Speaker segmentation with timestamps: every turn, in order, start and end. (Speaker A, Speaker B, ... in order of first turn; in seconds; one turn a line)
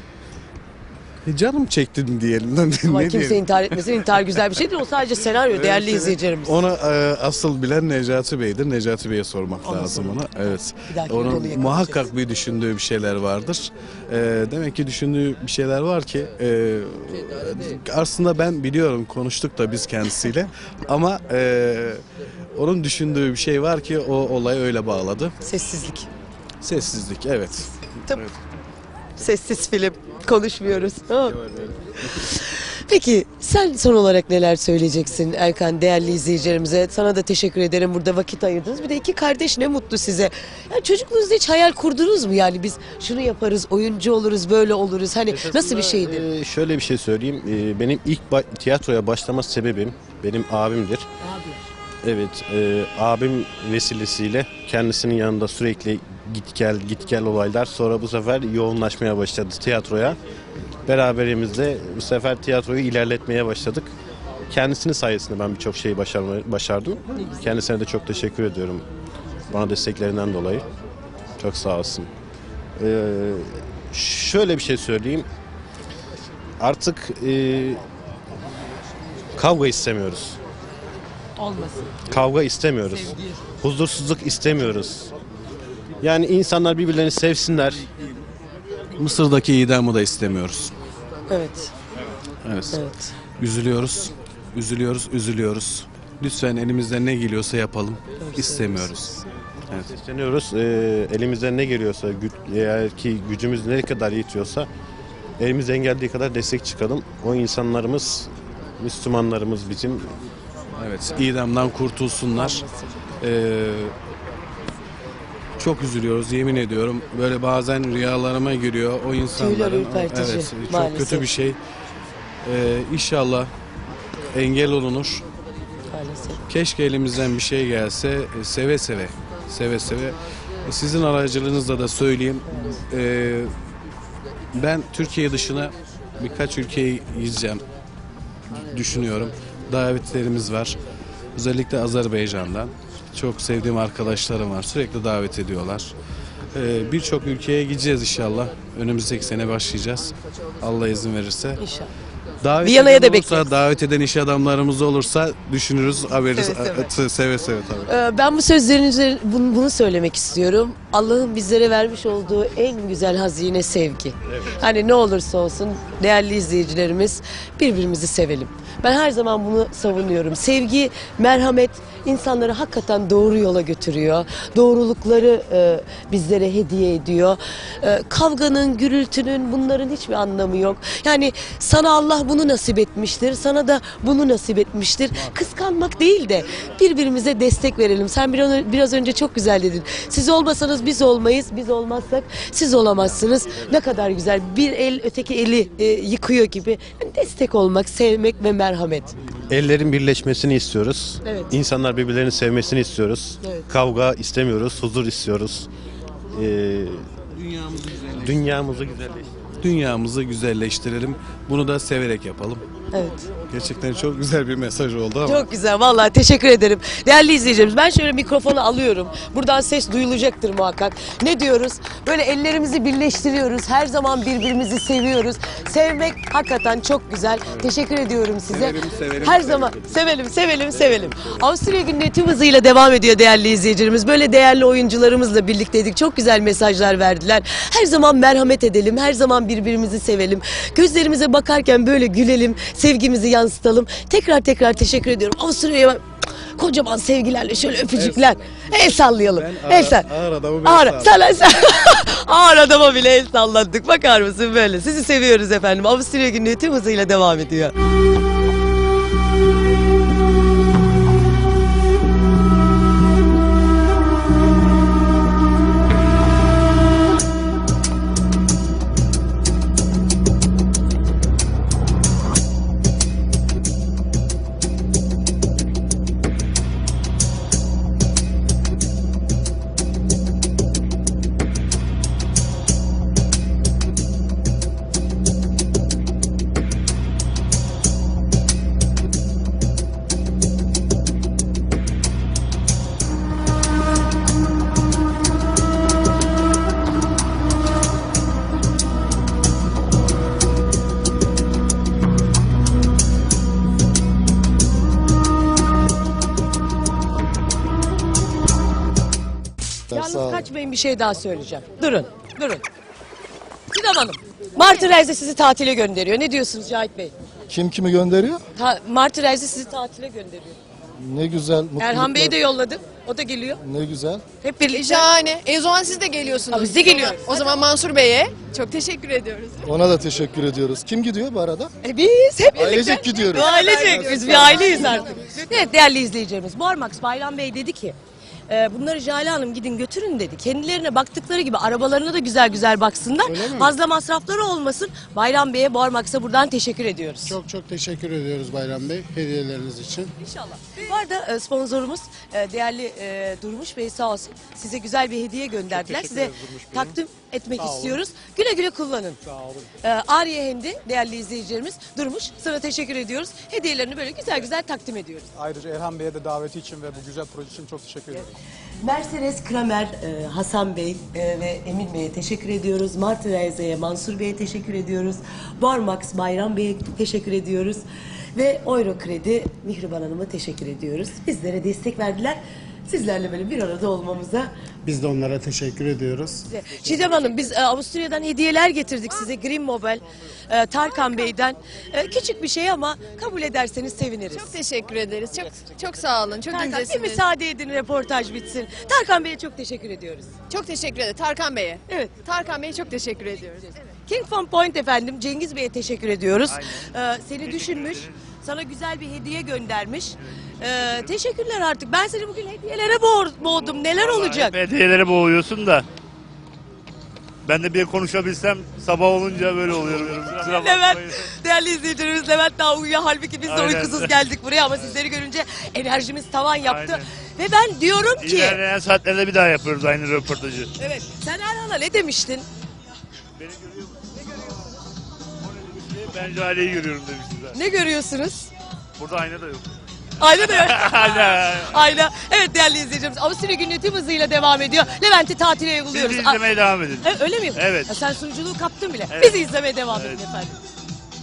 Speaker A: 1.2-3.8
Speaker B: 2.8-6.6
Speaker A: 5.5-22.0
Speaker B: 9.6-12.1
Speaker A: 22.6-25.3
Speaker B: 25.4-26.1
Speaker A: 26.6-28.4
Speaker B: 29.2-46.2
Speaker C: 45.3-51.1
Speaker B: 51.2-51.6
Speaker C: 52.0-60.2
Speaker C: 60.9-63.9
Speaker C: 64.5-68.9
Speaker C: 69.5-70.7
Speaker C: 71.4-72.1
Speaker C: 72.8-75.3
Speaker C: 76.6-77.8
Speaker C: 79.4-80.4
Speaker B: 81.4-81.9
Speaker C: 82.1-85.1
Speaker C: 86.0-87.9
Speaker A: 89.0-90.8
Speaker B: 91.3-91.7
Speaker A: 92.4-92.8
Speaker B: 92.7-93.1
Speaker A: 93.4-99.9
Speaker B: 98.2-99.0
Speaker C: 99.9-104.7
Speaker C: 105.4-110.2
Speaker A: 110.8-112.6
Speaker B: 112.3-112.9
Speaker A: 113.2-113.9
Speaker A: 115.6-121.6
Speaker B: 119.3-121.3
Speaker A: 122.4-123.5
Speaker A: 124.3-125.2
Speaker B: 125.9-126.4
Speaker A: 126.5-133.5
Speaker B: 132.5-132.8
Speaker A: 134.5-137.6
Speaker A: 138.5-140.8
Speaker A: 141.3-145.9
Speaker A: 146.5-151.6
Speaker B: 151.6-151.9
Speaker A: 152.4-157.9
Speaker B: 152.6-153.5
Speaker B: 156.3-156.9
Speaker B: 157.9-199.2
Speaker C: 199.5-205.7
Speaker C: 206.3-207.2
Speaker C: 207.9-209.3
Speaker A: 209.6-212.6
Speaker B: 212.9-213.3
Speaker A: 213.5-215.5
Speaker B: 215.2-246.0
Speaker A: 228.5-230.0
Speaker B: 246.6-250.1
Speaker A: 247.9-251.5
Speaker B: 250.7-257.7
Speaker D: 309.9-310.4
Speaker B: 309.9-312.6
Speaker B: 313.7-317.1
Speaker D: 317.5-318.4
Speaker B: 318.6-320.6
Speaker D: 321.0-322.4
Speaker B: 321.8-323.6
Speaker D: 323.6-324.2
Speaker B: 324.4-325.1
Speaker E: 324.7-329.6
Speaker B: 326.5-327.6
Speaker D: 329.6-331.7
Speaker B: 331.8-338.0
Speaker D: 332.6-333.6
Speaker E: 333.4-335.0
Speaker F: 333.9-334.7
Speaker B: 338.5-347.4
Speaker G: 343.2-343.7
Speaker G: 347.2-350.1
Speaker B: 350.2-359.2
Speaker F: 355.7-357.0
Speaker F: 357.5-358.0
Speaker F: 359.3-359.7
Speaker B: 359.8-365.3
Speaker F: 365.4-368.3
Speaker B: 368.8-384.5
Speaker G: 384.9-386.5
Speaker B: 386.4-394.6
Speaker E: 394.3-397.2
Speaker B: 396.5-400.3
Speaker E: 400.5-403.8
Speaker B: 401.9-402.1
Speaker B: 404.1-414.6
Speaker H: 406.5-406.9
Speaker H: 407.4-408.2
Speaker H: 413.5-415.9
Speaker H: 417.4-421.3
Speaker B: 420.3-428.6
Speaker H: 423.4-424.2
Speaker H: 426.6-427.0
Speaker H: 428.2-430.7
Speaker B: 430.8-432.5
Speaker H: 433.4-434.0
Speaker H: 435.6-437.6
Speaker B: 437.5-438.5
Speaker H: 439.0-439.7
Speaker B: 440.2-446.5
Speaker H: 440.3-441.9
Speaker H: 445.9-448.0
Speaker B: 447.0-450.6
Speaker H: 449.1-450.2